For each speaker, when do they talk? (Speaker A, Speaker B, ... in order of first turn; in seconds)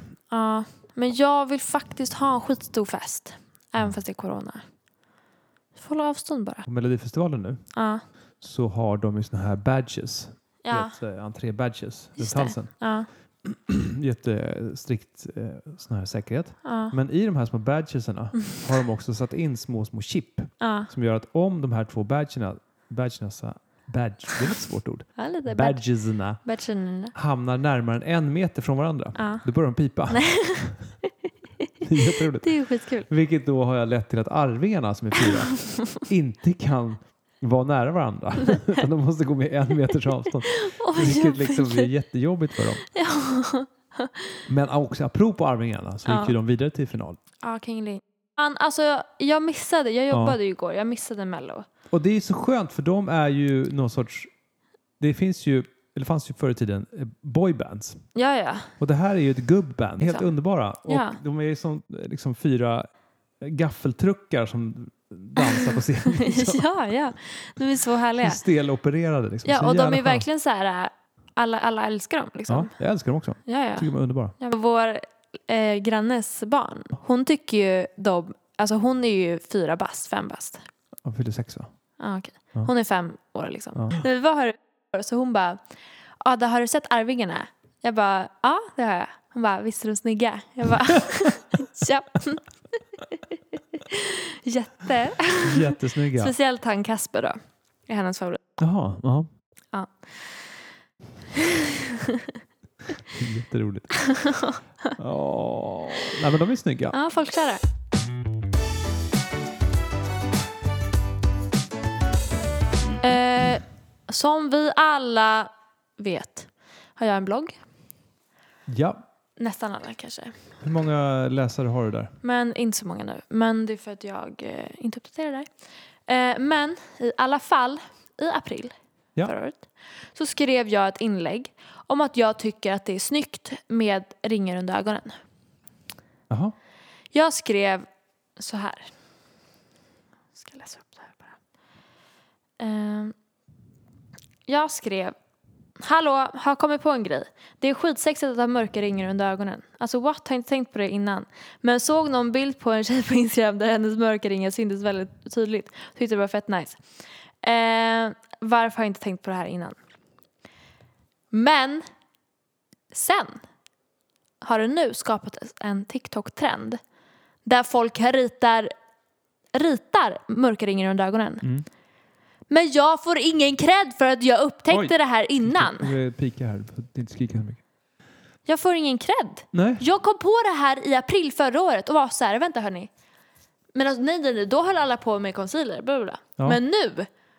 Speaker A: 0.3-4.6, 5.8-6.7, 7.7-8.0, 10.6-11.0, 12.2-13.1, 16.6-16.9, 20.6-20.9, 25.2-27.1, 29.1-29.5, 30.1-31.0, 32.1-33.1, 40.5-41.9, 42.8-44.4, 46.0-46.3, 47.4-51.7, 58.1-58.7, 60.0-60.3, 60.9-61.2, 66.1-68.4, 69.4-72.7, 73.4-80.6, 82.0-85.6, 86.2-98.4, 99.7-100.7, 104.1-104.5, 106.9-107.6, 113.0-117.5, 119.4-120.3, 122.2-125.5, 126.1-135.2, 137.1-137.8, 138.4-138.9, 140.3-141.3, 142.6-143.1, 144.4-145.1, 145.8-156.8, 157.4-159.8, 161.3-161.8, 162.9-163.4, 164.4-166.8, 167.4-168.7, 169.5-171.4, 172.5-175.9, 178.4-182.9, 183.7-187.1
Speaker B: 6.7-7.6, 8.4-12.8, 13.4-26.4, 27.1-30.8, 31.8-42.9, 44.5-47.2, 50.1-50.4, 51.9-54.3, 55.0-58.0, 58.8-62.9, 63.4-66.6, 68.2-70.2, 72.5-74.3, 81.0-81.7, 95.4-96.3, 98.6-99.3, 103.1-104.3, 105.0-107.0, 118.7-119.0, 120.6-122.1, 174.7-177.6, 179.5-179.8